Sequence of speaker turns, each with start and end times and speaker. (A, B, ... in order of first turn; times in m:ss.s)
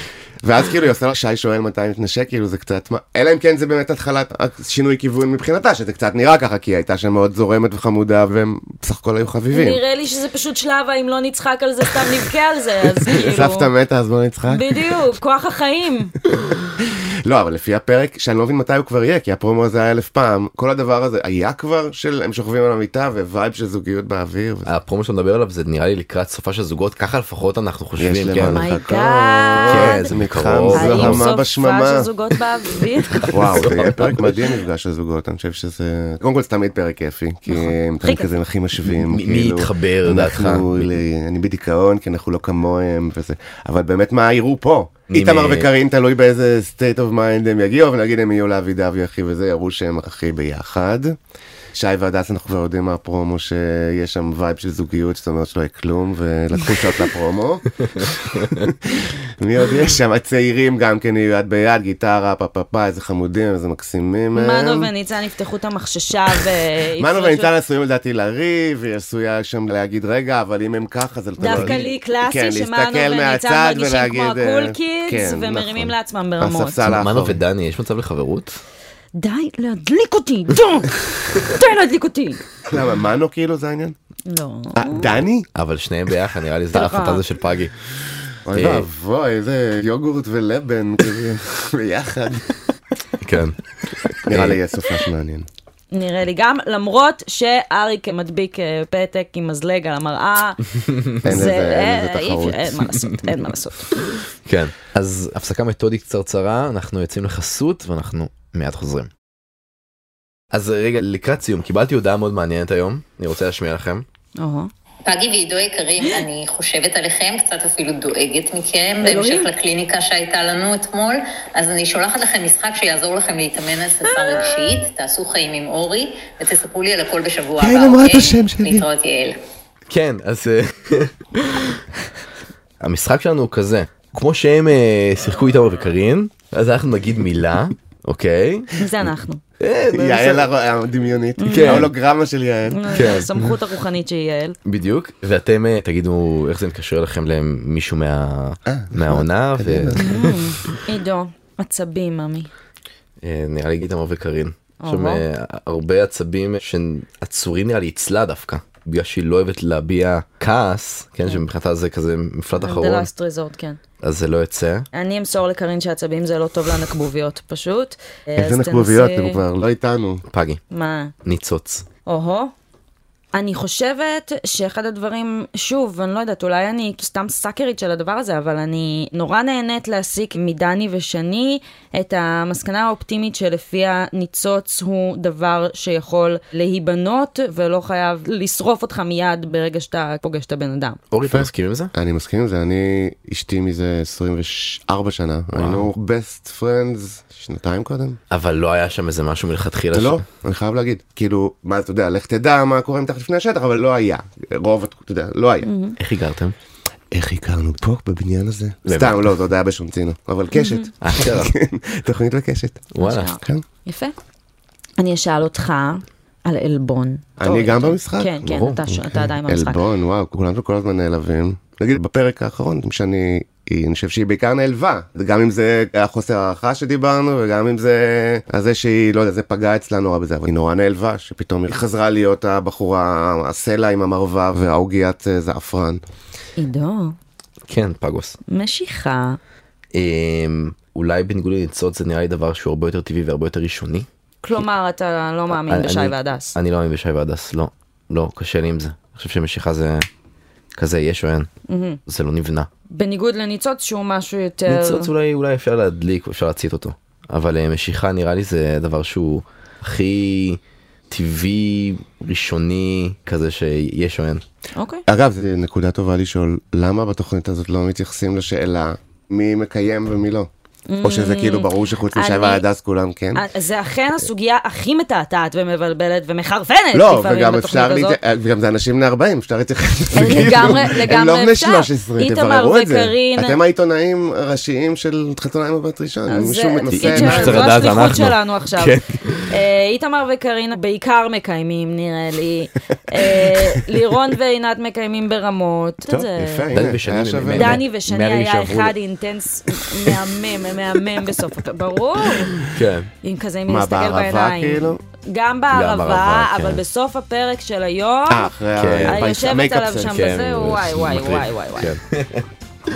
0:00.4-0:09.8 A
0:09.5-0:13.7 B
0:13.1-0:14.7 A
0:14.5-0:16.1 B
0:17.2-0:24.7 A
0:24.6-0:28.7 C
0:28.0-0:32.1 A
0:28.5-0:30.1 B
0:29.6-0:31.2 C
0:30.7-0:33.4 B
0:33.2-0:34.4 C
0:33.3-0:51.1 A
0:37.5-0:38.3 B
0:38.8-0:40.9 C
0:45.1-0:45.7 C
0:51.7-1:04.9 A
1:04.3-1:07.5 B
1:07.0-1:17.4 A
1:11.4-1:16.8 B
1:11.4-1:11.8 C
1:16.8-1:18.5 C
1:19.2-1:22.4 B
1:22.6-1:23.9 A
1:24.3-1:25.2 B
1:24.8-1:25.5 A
1:25.5-1:27.7 C
1:26.7-1:27.2 B
1:28.4-1:32.5 A
1:28.5-1:28.8 C
1:33.2-1:34.6 C
1:34.2-1:35.5 A
1:35.9-1:40.6 B
1:41.2-1:42.8 A
1:41.2-1:43.9 B
1:44.4-1:49.1 C
1:50.5-1:54.0 C
1:54.4-1:54.7 B
1:55.1-2:09.4 D
1:59.0-1:59.5 B
2:07.6-2:08.9 A
2:09.9-2:11.8 C
2:12.8-2:18.7 C
2:18.8-2:19.4 B
2:19.6-2:20.5 C
2:19.9-2:23.6 A
2:21.4-2:21.9 B
2:21.5-2:21.9 C
2:22.7-2:24.6 B
2:22.9-2:23.3 C
2:24.6-2:30.4 C
2:28.7-2:30.4 A
2:30.0-2:32.5 B
2:33.2-2:43.1 C
2:34.8-2:35.2 B
2:42.6-2:43.8 B
2:44.0-2:44.8 C
2:44.9-2:49.4 B
2:48.4-2:50.2 A
2:50.3-2:50.6 C
2:50.7-2:51.1 B
2:51.2-2:51.8 C
2:52.0-2:52.5 B
2:53.3-3:11.0 B
3:11.1-3:11.9 C
3:11.3-3:18.2 A
3:15.5-3:15.9 C
3:18.3-3:20.2 C
3:19.9-3:25.7 A
3:25.6-3:26.0 B
3:26.0-3:26.5 C
3:27.1-3:33.6 A
3:28.8-3:29.2 C
3:30.5-3:30.9 B
3:31.0-3:31.5 C
3:32.9-3:33.3 C
3:33.0-3:34.1 B
3:35.0-3:39.8 B
3:37.4-3:56.0 A
3:38.5-3:38.8 C
3:56.6-3:57.2 B
3:57.7-3:58.4 C
3:58.5-3:59.4 B
3:59.9-4:04.1 C
4:04.4-4:06.6 B
4:05.5-4:10.0 C
4:10.8-4:11.5 C
4:11.7-4:12.0 B
4:12.1-4:12.7 C
4:12.9-4:15.1 B
4:14.6-4:20.6 C
4:21.1-4:24.4 C
4:24.8-4:25.0 B
4:25.1-4:30.5 A
4:30.9-4:32.6 B
4:31.0-4:33.4 A
4:33.3-4:38.2 B
4:36.9-4:47.9 A
4:40.1-4:43.6 B
4:46.3-4:48.9 B
4:46.9-4:49.5 C
4:49.5-4:56.7 B
4:56.1-4:57.8 A
4:56.7-4:59.0 C
4:57.5-5:02.7 B
5:02.6-5:03.1 C
5:03.2-5:08.5 B
5:03.7-5:05.0 A
5:05.7-5:06.8 C
5:08.3-5:10.2 A
5:08.8-5:09.3 C
5:09.1-5:11.9 B
5:10.0-5:12.4 C